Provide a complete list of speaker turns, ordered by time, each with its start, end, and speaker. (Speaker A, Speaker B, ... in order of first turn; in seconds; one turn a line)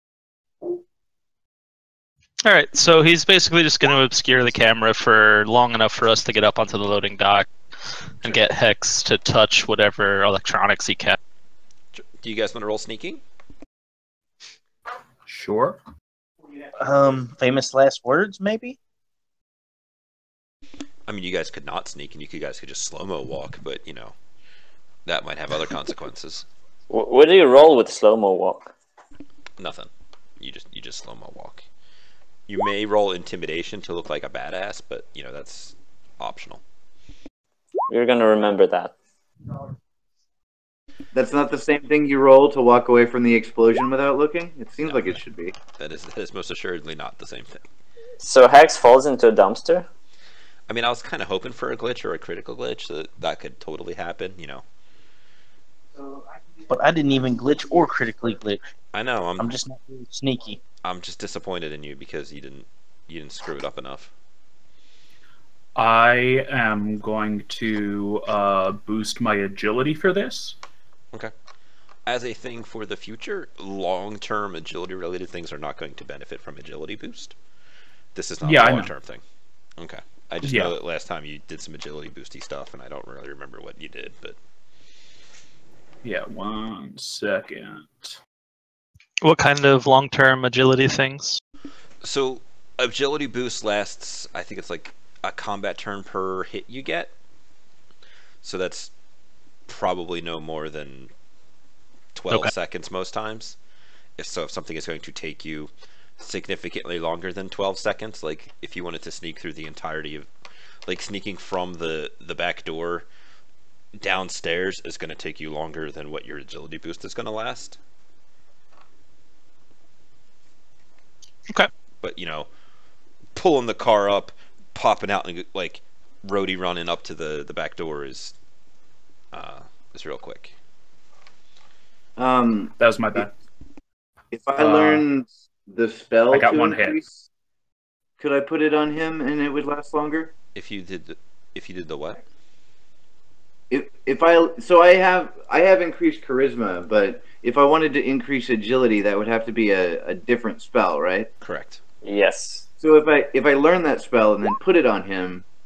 Speaker A: 2.4-7.5
Speaker A: 8.2-11.2
Speaker B: 11.9-13.2
Speaker C: 15.3-15.8
Speaker D: 16.8-18.8
Speaker B: 21.1-24.1
Speaker B: 25.1-26.5
Speaker E: 26.9-28.7
Speaker B: 29.6-31.6
Speaker B: 32.5-36.6
Speaker E: 37.9-38.9
Speaker F: 41.1-45.5
Speaker B: 44.8-47.6
Speaker E: 48.2-49.9
Speaker B: 50.7-54.6
Speaker D: 56.7-58.7
Speaker B: 58.9-59.5
Speaker D: 59.4-60.6
Speaker B: 60.8-64.1
Speaker C: 65.8-70.6
Speaker B: 72.1-77.3
Speaker B: 78.2-79.2
Speaker C: 78.4-78.9
Speaker B: 79.8-84.4
Speaker C: 80.4-80.8
Speaker C: 86.0-88.2
Speaker A: 89.2-91.4
Speaker B: 92.0-97.1
Speaker B: 98.4-98.9
Speaker B: 99.7-101.1
Speaker B: 102.2-103.6
Speaker B: 104.2-110.3
Speaker B: 110.9-113.1
Speaker B: 114.0-117.8
Speaker B: 122.0-122.5
Speaker B: 123.3-128.3
Speaker B: 129.3-130.5
Speaker F: 132.2-133.2
Speaker C: 132.8-133.3
Speaker F: 134.3-137.2
Speaker C: 134.6-135.1
Speaker C: 136.3-137.0
Speaker F: 138.2-140.3
Speaker B: 140.6-142.2
Speaker F: 143.7-151.3
Speaker B: 151.4-151.8
Speaker E: 152.0-152.7
Speaker F: 152.8-155.5